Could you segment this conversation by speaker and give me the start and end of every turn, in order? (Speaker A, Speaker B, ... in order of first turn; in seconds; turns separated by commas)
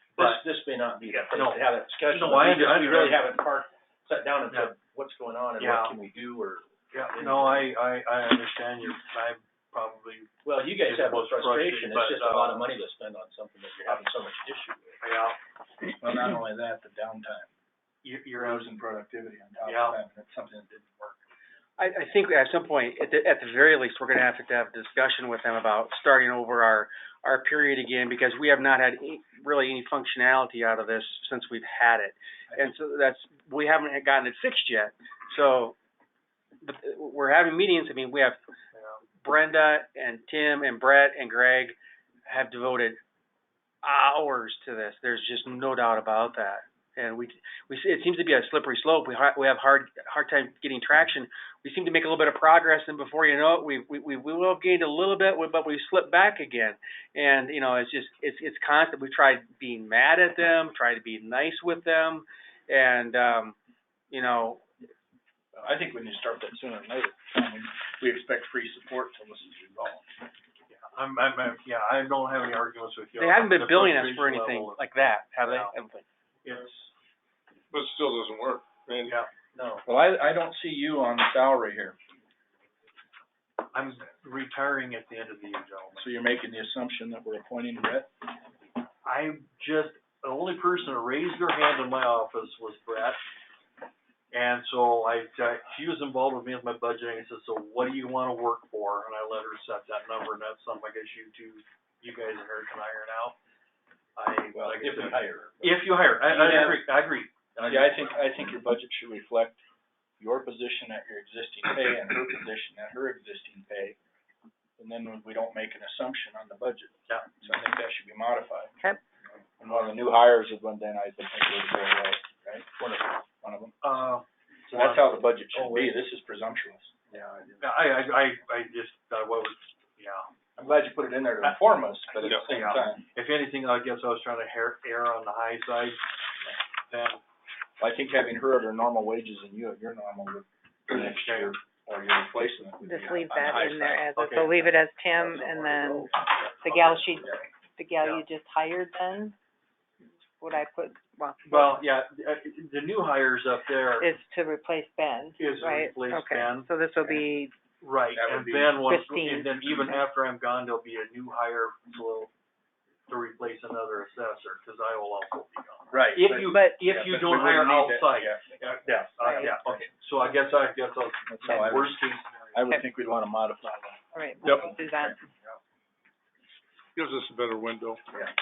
Speaker A: 0.1-7.7, Speaker B: 0.2-0.4, Speaker B: 1.1-3.3, Speaker B: 4.5-4.8, Speaker B: 5.6-6.0, Speaker B: 6.9-12.7, Speaker A: 10.4-15.0, Speaker B: 15.0-15.4, Speaker C: 15.9-17.5, Speaker B: 18.0-18.7, Speaker C: 18.4-20.7, Speaker B: 19.7-20.0, Speaker B: 20.7-21.2, Speaker D: 21.8-35.8, Speaker D: 36.6-38.4, Speaker B: 38.7-39.0, Speaker D: 39.2-43.0, Speaker D: 43.8-63.6, Speaker D: 64.1-64.6, Speaker C: 65.5-70.1, Speaker B: 70.7-75.8, Speaker D: 73.2-76.0, Speaker B: 76.4-76.9, Speaker E: 77.7-79.2, Speaker A: 79.6-79.8, Speaker C: 79.8-82.0, Speaker B: 83.7-86.1, Speaker C: 86.0-88.1, Speaker B: 89.0-93.2, Speaker B: 94.3-103.4, Speaker B: 104.2-108.0, Speaker A: 104.5-106.8, Speaker C: 106.3-106.8, Speaker A: 107.6-107.9, Speaker C: 107.6-109.6, Speaker C: 110.2-114.0, Speaker C: 114.8-118.8, Speaker C: 119.6-122.8, Speaker A: 122.8-123.2, Speaker C: 123.4-123.8, Speaker B: 123.8-125.3, Speaker C: 124.7-127.1, Speaker A: 125.5-126.0, Speaker A: 127.1-127.7, Speaker B: 127.6-130.3, Speaker C: 130.6-133.0, Speaker B: 131.4-136.0, Speaker E: 132.2-132.5, Speaker B: 136.9-137.2, Speaker C: 137.8-146.1, Speaker B: 141.0-141.5, Speaker F: 142.8-149.3, Speaker B: 144.2-144.5, Speaker C: 146.6-147.4, Speaker F: 150.4-151.8, Speaker B: 151.5-154.1, Speaker F: 154.0-157.5, Speaker B: 155.4-156.7, Speaker B: 157.8-162.3, Speaker C: 158.1-158.8, Speaker F: 158.8-160.0, Speaker B: 163.1-172.8, Speaker C: 165.9-169.9, Speaker F: 166.5-166.7, Speaker F: 169.2-169.6, Speaker C: 171.3-175.1, Speaker F: 174.1-175.2, Speaker E: 174.4-174.8, Speaker E: 177.0-178.0